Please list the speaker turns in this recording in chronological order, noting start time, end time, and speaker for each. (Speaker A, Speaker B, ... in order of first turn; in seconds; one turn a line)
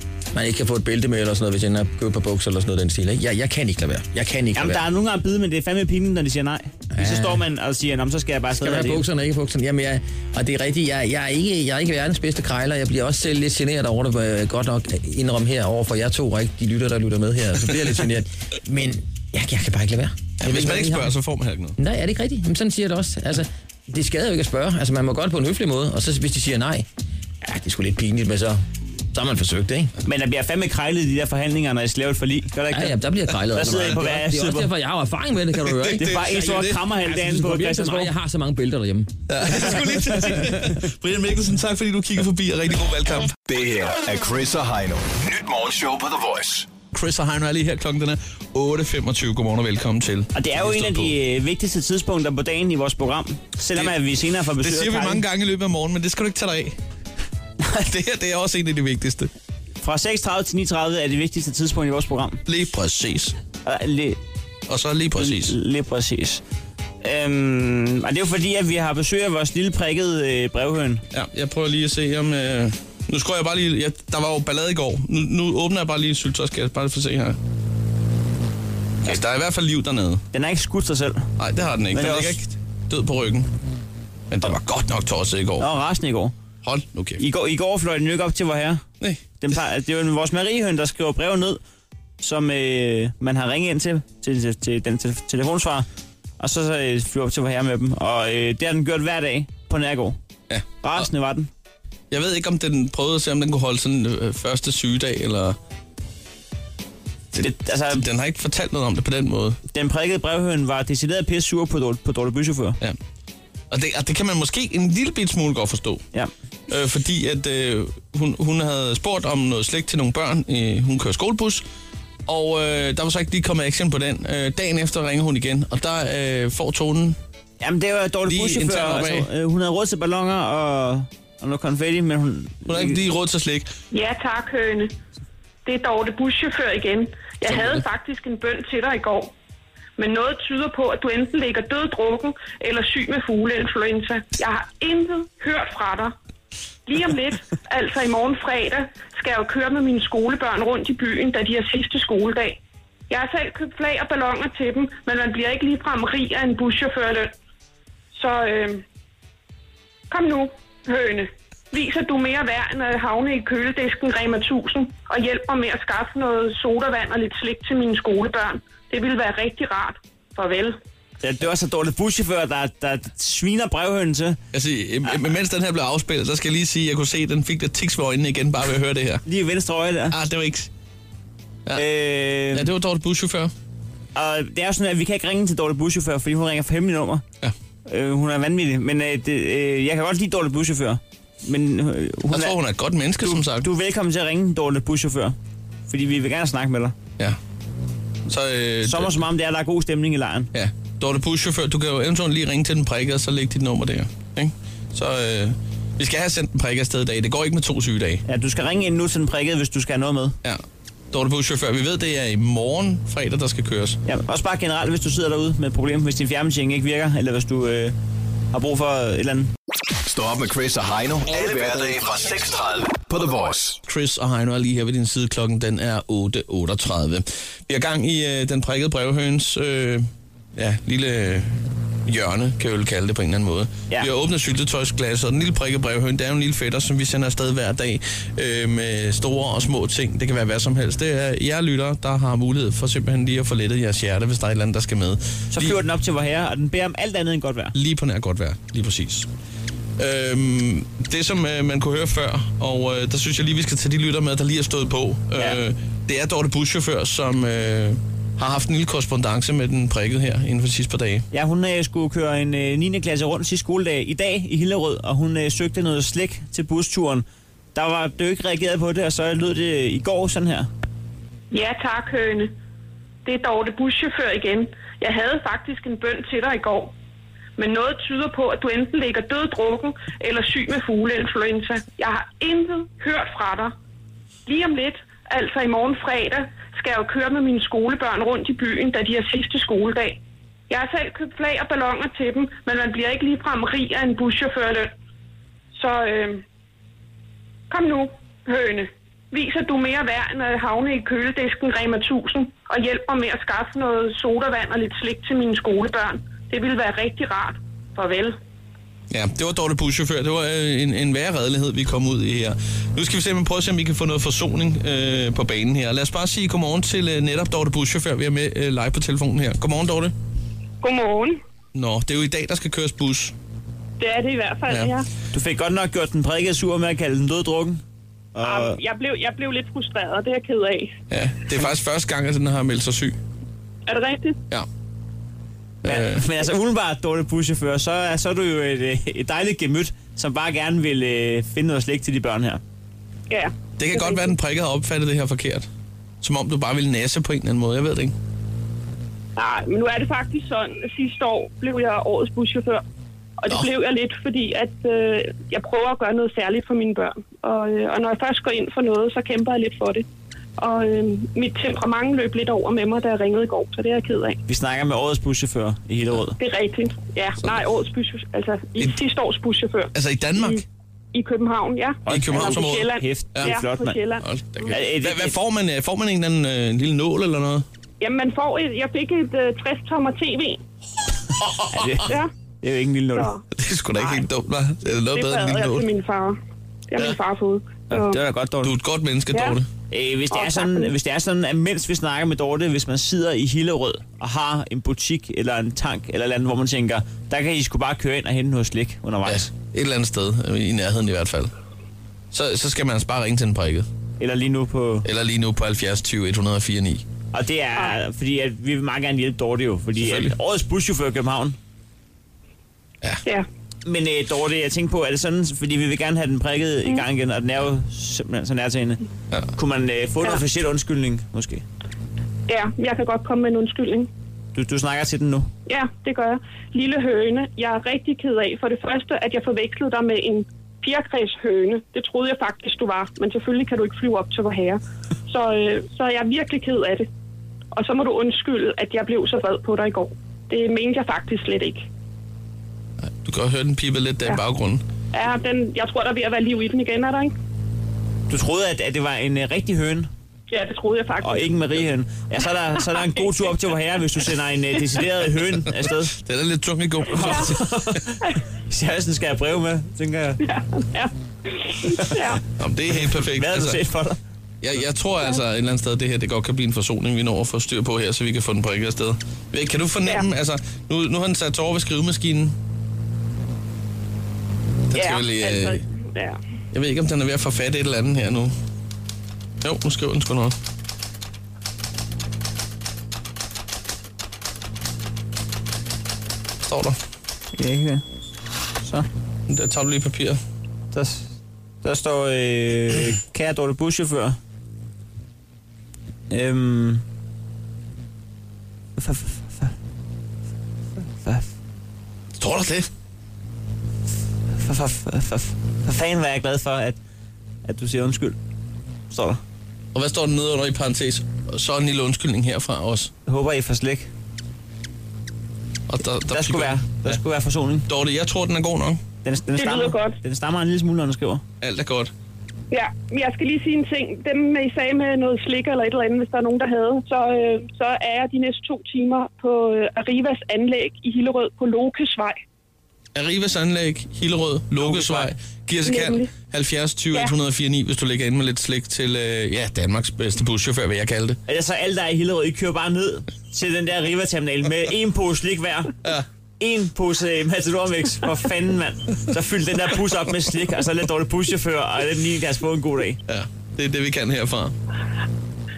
Speaker A: 0.3-4.8
Speaker B: 4.6-9.0
Speaker A: 6.9-7.4
Speaker A: 8.6-21.1
Speaker C: 20.4-21.8
Speaker A: 21.8-26.9
Speaker A: 27.4-29.9
Speaker B: 30.1-33.0
Speaker A: 32.7-36.3
Speaker B: 33.5-34.7
Speaker C: 35.8-36.8
Speaker B: 36.0-38.1
Speaker A: 37.0-39.1
Speaker C: 39.3-43.4
Speaker B: 39.5-40.7
Speaker D: 43.5-46.7
Speaker C: 46.9-51.1
Speaker B: 50.4-55.2
Speaker C: 53.8-56.8
Speaker C: 57.7-59.3
Speaker B: 59.8-62.4
Speaker C: 62.5-63.4
Speaker B: 63.6-64.2
Speaker C: 64.7-65.6
Speaker B: 65.2-66.4
Speaker B: 67.0-71.0
Speaker C: 71.1-77.4
Speaker C: 79.0-80.2
Speaker B: 80.3-81.3
Speaker C: 81.4-83.5
Speaker B: 81.9-82.4
Speaker C: 84.3-85.7
Speaker B: 85.6-86.3
Speaker C: 86.6-87.2
Speaker B: 87.2-88.8
Speaker B: 89.4-91.6
Speaker B: 92.2-95.9
Speaker B: 96.4-100.2
Speaker C: 100.5-101.1
Speaker B: 100.8-101.5
Speaker C: 102.1-105.6
Speaker C: 107.3-109.6
Speaker B: 107.4-108.0
Speaker B: 109.7-112.8
Speaker C: 113.7-116.0
Speaker C: 116.7-121.6
Speaker C: 122.3-127.2
Speaker B: 127.6-133.0
Speaker C: 128.3-129.3
Speaker C: 132.7-133.7
Speaker E: 133.9-134.9
Speaker E: 135.7-139.3
Speaker C: 137.5-137.8
Speaker E: 140.0-146.1
Speaker E: 146.9-157.3
Speaker E: 158.1-158.8
Speaker E: 160.1-170.8
Speaker B: 171.2-174.4
Speaker C: 174.5-179.2
Speaker B: 179.3-180.2
Speaker C: 180.1-180.7
Speaker B: 181.8-182.7
Speaker C: 182.5-183.5
Speaker B: 184.2-187.2
Speaker B: 187.9-192.6
Speaker C: 192.3-193.7
Speaker B: 193.2-195.4
Speaker B: 195.9-196.9
Speaker C: 198.3-199.2
Speaker B: 198.8-200.5
Speaker C: 200.5-208.2
Speaker B: 208.3-210.3
Speaker C: 210.4-214.0
Speaker B: 214.1-217.9
Speaker B: 218.5-219.5
Speaker D: 220.0-223.8
Speaker C: 223.9-245.8
Speaker B: 245.5-247.8
Speaker C: 247.8-249.3
Speaker C: 250.0-261.3
Speaker B: 261.3-270.7
Speaker E: 271.5-272.6
Speaker E: 273.2-276.9
Speaker E: 277.6-283.7
Speaker E: 284.5-294.9
Speaker E: 295.7-296.4
Speaker E: 297.7-308.4
Speaker C: 309.1-320.1
Speaker E: 320.8-321.4
Speaker C: 321.7-323.3
Speaker E: 324.0-325.1
Speaker C: 324.7-324.9
Speaker B: 325.3-327.8
Speaker B: 328.4-328.8
Speaker E: 328.4-331.0
Speaker C: 331.1-333.2
Speaker E: 333.9-334.4
Speaker C: 335.8-336.2
Speaker B: 335.9-342.6
Speaker E: 343.3-344.3
Speaker C: 343.8-345.7
Speaker C: 346.2-348.1
Speaker E: 349.4-352.8
Speaker E: 353.4-360.1
Speaker E: 360.6-364.4
Speaker B: 364.5-366.4
Speaker E: 366.4-374.2
Speaker C: 369.9-370.6
Speaker B: 372.1-374.0
Speaker C: 372.1-373.6
Speaker C: 374.2-377.6
Speaker B: 374.7-375.4
Speaker E: 378.0-380.6
Speaker C: 381.4-381.9
Speaker B: 381.7-383.3
Speaker E: 382.1-382.3
Speaker E: 383.1-384.3
Speaker C: 383.5-385.9
Speaker E: 384.9-386.4
Speaker E: 386.9-388.2
Speaker B: 387.9-388.7
Speaker C: 388.6-389.7
Speaker E: 389.3-389.6
Speaker B: 389.9-399.5
Speaker E: 390.3-390.9
Speaker C: 399.3-401.5
Speaker C: 402.3-403.9
Speaker B: 404.2-405.1
Speaker C: 405.1-407.1
Speaker B: 407.3-411.6
Speaker C: 410.0-410.3
Speaker B: 413.9-419.0
Speaker B: 419.6-421.6
Speaker E: 422.5-424.1
Speaker B: 424.6-425.5
Speaker E: 425.7-437.1
Speaker E: 437.7-441.9
Speaker C: 443.0-444.8
Speaker E: 445.1-447.3
Speaker B: 448.3-450.1
Speaker E: 450.5-451.5
Speaker B: 451.2-456.1
Speaker E: 452.8-453.3
Speaker C: 456.1-458.0
Speaker B: 457.1-460.4
Speaker E: 460.4-462.4
Speaker C: 462.6-463.8
Speaker B: 463.0-464.2
Speaker C: 464.6-472.6
Speaker C: 474.9-475.8
Speaker E: 474.9-476.4
Speaker C: 476.7-478.5
Speaker C: 479.6-480.6
Speaker C: 486.6-487.0
Speaker B: 487.6-488.0
Speaker C: 489.5-490.4
Speaker B: 490.9-494.4
Speaker B: 496.3-497.0
Speaker B: 499.0-499.7
Speaker B: 501.2-501.5
Speaker C: 502.4-502.9
Speaker B: 504.6-507.0
Speaker B: 507.6-508.4
Speaker B: 509.1-509.4
Speaker C: 509.9-513.1
Speaker B: 513.3-514.1
Speaker C: 515.9-517.2
Speaker B: 516.3-517.9
Speaker C: 517.9-519.0
Speaker B: 519.2-521.4
Speaker E: 519.5-520.2
Speaker C: 521.6-522.1
Speaker E: 522.7-532.4
Speaker C: 533.1-541.4
Speaker B: 534.8-535.3
Speaker E: 535.9-536.3
Speaker B: 541.5-545.9
Speaker B: 546.6-553.2
Speaker C: 553.3-554.8